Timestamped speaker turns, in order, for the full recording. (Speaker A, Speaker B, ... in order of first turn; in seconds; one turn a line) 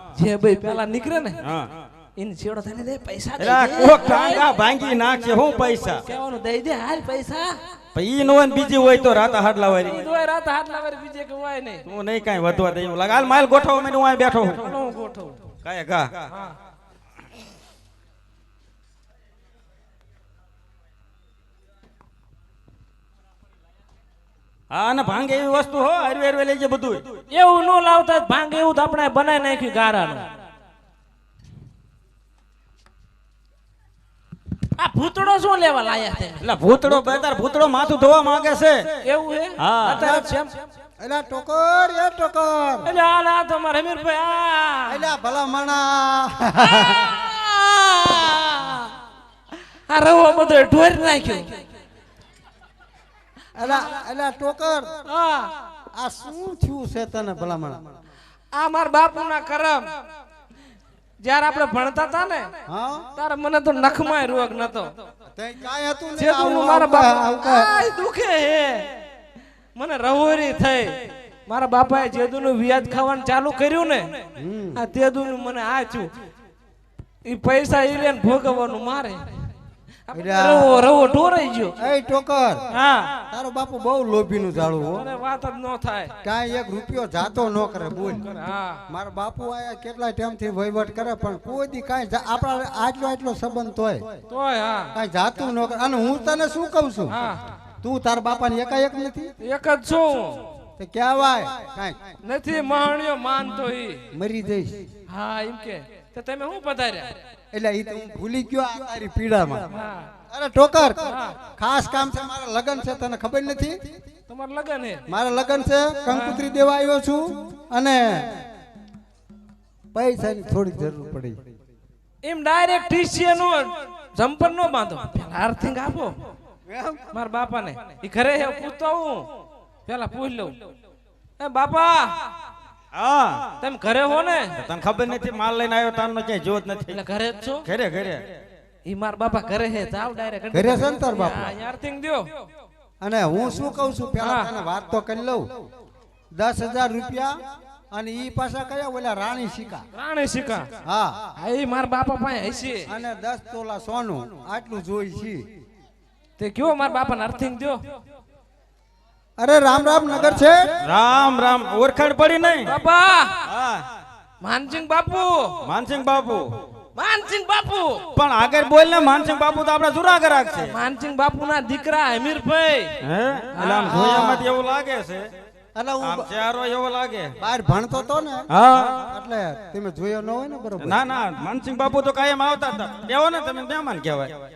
Speaker A: 0.2-1.4
Speaker B: 1.4-1.7
Speaker A: 2.2-4.5
Speaker B: 3.4-6.0
Speaker A: 6.1-7.6
Speaker B: 7.9-10.1
Speaker A: 9.8-11.8
Speaker B: 11.9-14.6
Speaker A: 14.5-15.4
Speaker B: 15.6-16.1
Speaker B: 24.7-27.1
Speaker A: 27.3-30.3
Speaker A: 34.8-36.4
Speaker B: 36.4-38.8
Speaker A: 39.0-40.5
Speaker B: 39.6-40.2
Speaker C: 40.0-40.3
Speaker C: 41.0-42.9
Speaker A: 42.9-45.1
Speaker C: 44.9-47.2
Speaker A: 46.7-48.9
Speaker A: 49.9-51.6
Speaker C: 53.6-54.9
Speaker A: 55.1-55.5
Speaker C: 56.0-57.8
Speaker A: 58.5-59.9
Speaker A: 61.2-62.5
Speaker C: 62.7-63.1
Speaker A: 63.2-64.9
Speaker C: 65.3-67.7
Speaker A: 66.2-68.9
Speaker A: 69.8-74.2
Speaker C: 74.4-74.8
Speaker A: 74.8-76.1
Speaker A: 77.2-79.2
Speaker A: 80.1-81.8
Speaker C: 80.1-80.8
Speaker C: 81.8-82.6
Speaker A: 82.7-83.1
Speaker C: 83.3-85.0
Speaker A: 85.0-86.1
Speaker C: 86.2-88.3
Speaker A: 88.2-88.8
Speaker C: 88.9-94.1
Speaker A: 94.3-94.9
Speaker C: 95.0-97.2
Speaker A: 97.1-97.4
Speaker C: 97.8-99.3
Speaker A: 99.4-100.4
Speaker C: 100.8-102.0
Speaker A: 102.2-104.0
Speaker C: 104.1-104.8
Speaker A: 105.1-107.2
Speaker C: 107.5-109.7
Speaker A: 109.7-110.1
Speaker C: 110.3-113.8
Speaker A: 111.1-111.4
Speaker A: 114.3-115.0
Speaker C: 115.1-118.4
Speaker A: 116.1-116.4
Speaker C: 119.9-121.4
Speaker A: 122.2-126.2
Speaker C: 126.7-127.0
Speaker A: 127.1-129.3
Speaker A: 129.9-130.6
Speaker A: 131.4-132.2
Speaker B: 132.9-133.5
Speaker A: 133.6-134.6
Speaker B: 134.6-137.0
Speaker A: 136.9-137.6
Speaker B: 137.7-138.2
Speaker A: 138.9-142.3
Speaker C: 140.5-141.6
Speaker C: 143.0-145.6
Speaker A: 144.2-144.5
Speaker C: 146.3-147.3
Speaker C: 147.9-149.8
Speaker A: 149.9-150.7
Speaker C: 150.8-151.2
Speaker A: 151.4-152.9
Speaker C: 152.9-155.5
Speaker A: 156.4-157.8
Speaker C: 159.4-160.7
Speaker B: 160.8-162.7
Speaker A: 162.7-163.4
Speaker B: 163.5-163.8
Speaker A: 164.4-165.5
Speaker B: 165.6-166.5
Speaker A: 167.0-168.0
Speaker B: 168.2-170.7
Speaker A: 170.7-172.9
Speaker B: 173.0-175.3
Speaker A: 173.6-174.1
Speaker C: 173.9-174.5
Speaker C: 175.8-176.3
Speaker B: 176.0-177.3
Speaker C: 177.4-178.5
Speaker B: 178.5-179.1
Speaker C: 179.1-181.0
Speaker B: 180.8-184.3